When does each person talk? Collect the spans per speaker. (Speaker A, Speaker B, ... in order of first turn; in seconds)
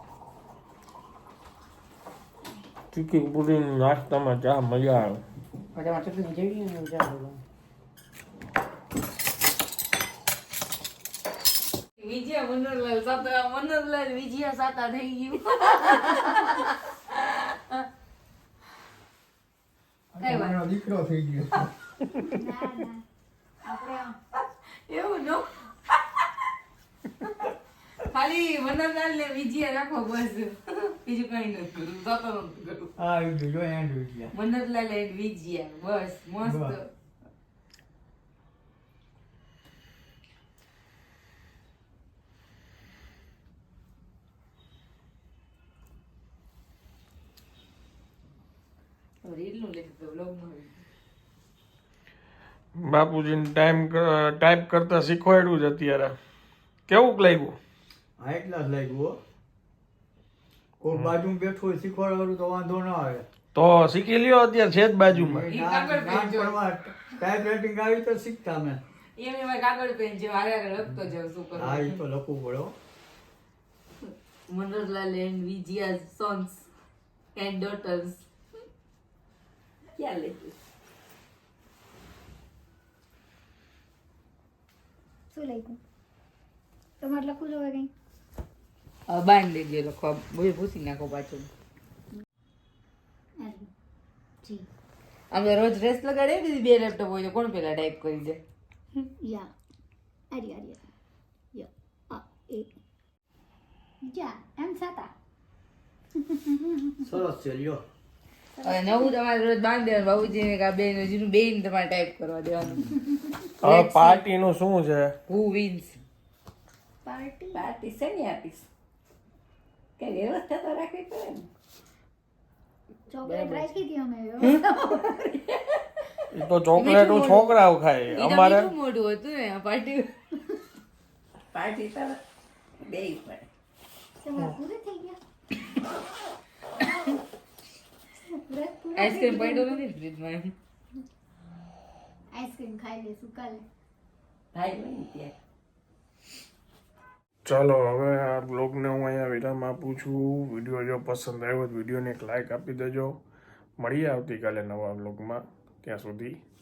Speaker A: 2.9-5.2, 52.8-56.2, 56.9-57.6, 63.5-65.5, 113.6-115.2, 126.3-128.7, 147.4-153.2, 153.8-156.4
Speaker B: 5.8-7.4, 12.0-17.8, 20.2-20.7, 24.9-25.7, 27.2-27.5, 28.1-32.9, 34.3-36.9, 49.2-50.8, 65.5-66.6, 69.2-72.0, 74.5-76.7, 77.4-78.2, 89.1-91.5, 95.3-98.4, 108.6-112.9, 113.6-114.2, 115.3-116.0, 126.8-130.1, 138.9-140.5
Speaker C: 20.2-21.6, 33.0-34.3, 36.4-36.8, 58.2-59.2, 60.8-63.2, 65.1-68.8, 71.5-72.7, 107.0-107.8
Speaker D: 22.3-23.0, 23.6-24.2, 85.3-85.8, 87.0-87.9, 93.4-93.7, 99.0-99.5, 100.3-100.8, 101.5-102.7, 104.0-105.1, 117.0-117.7, 123.1-125.0, 134.2-135.2, 138.3-139.9, 142.3-143.6
Speaker E: 80.0-80.6, 108.6-109.0, 117.5-118.7, 120.0-121.5, 123.3-123.6, 124.7-125.8, 131.5-132.2, 132.8-133.5, 144.5-145.3